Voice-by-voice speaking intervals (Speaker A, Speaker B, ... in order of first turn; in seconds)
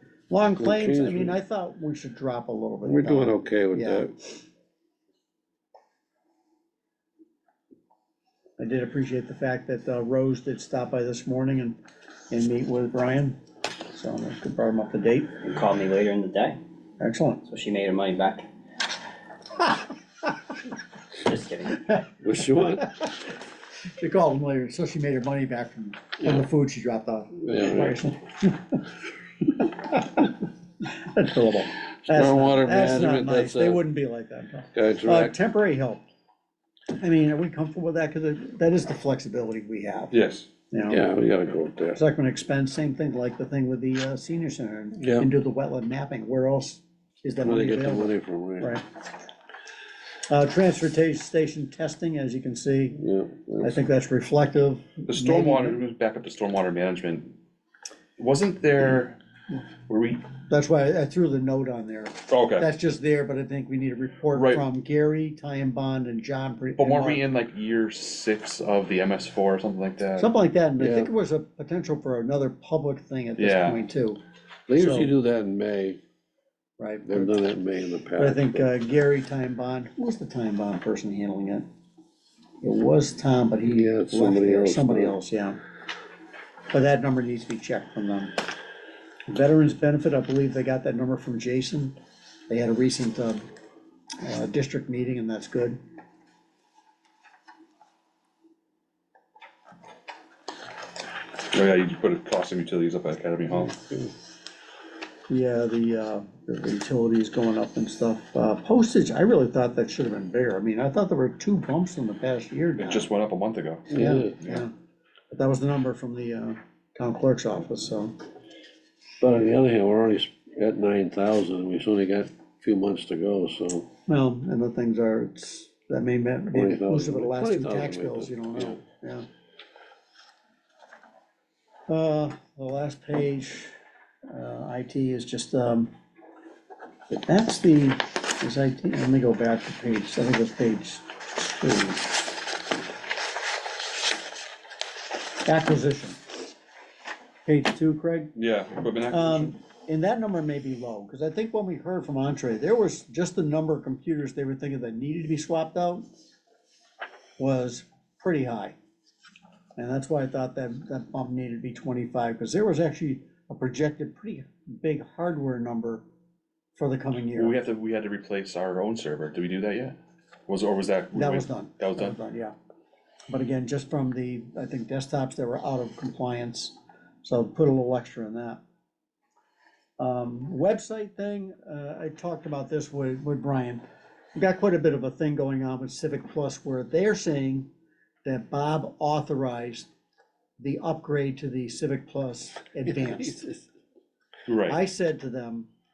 Speaker A: 0.3-4.0, 8.6-11.8, 12.3-15.4, 17.0-17.4, 24.0-28.8, 29.5-30.3, 30.8-36.0, 37.0-40.1, 40.7-41.0, 41.9-48.8, 50.3-53.0, 53.6-55.8, 60.5-67.2, 70.2-74.2, 74.7-75.1, 76.8-77.3, 78.2-81.7, 82.6-85.6, 86.7-88.3, 89.3-92.0, 92.5-93.5, 94.2-95.8, 105.3-113.1, 114.0-114.7, 115.3-118.2, 124.1-129.2, 131.9-133.7, 134.3-135.9, 137.1-142.1, 145.4-146.2, 147.4-148.3, 149.1-156.0, 157.4-158.8, 159.8-166.0, 166.8-167.6, 171.1-172.5, 173.3-178.6, 180.0-183.8, 184.3-187.7, 188.2-189.9, 190.6-193.5, 194.7-195.7
Speaker B: 0.6-1.4, 2.8-4.1, 22.2-22.9, 26.2-26.5, 27.4-28.0, 32.0-33.8, 34.7-35.4, 40.9-42.0, 45.0-45.3, 47.4-48.8, 53.0-53.8, 70.8-71.1, 74.7-76.0, 77.1-78.7, 83.7-85.2, 103.7-104.1, 113.9-114.3, 119.2-123.9, 126.5-128.8, 193.1-193.5
Speaker C: 15.4-16.6, 17.4-18.5, 21.2-21.8
Speaker D: 40.1-40.5, 55.1-57.4, 58.2-59.2, 59.9-60.2, 62.3-62.8, 64.3-64.6, 66.8-70.3, 73.4-73.8, 101.5-103.8, 112.8-114.6, 148.3-149.6, 167.3-170.0, 170.5-172.2, 194.4-194.8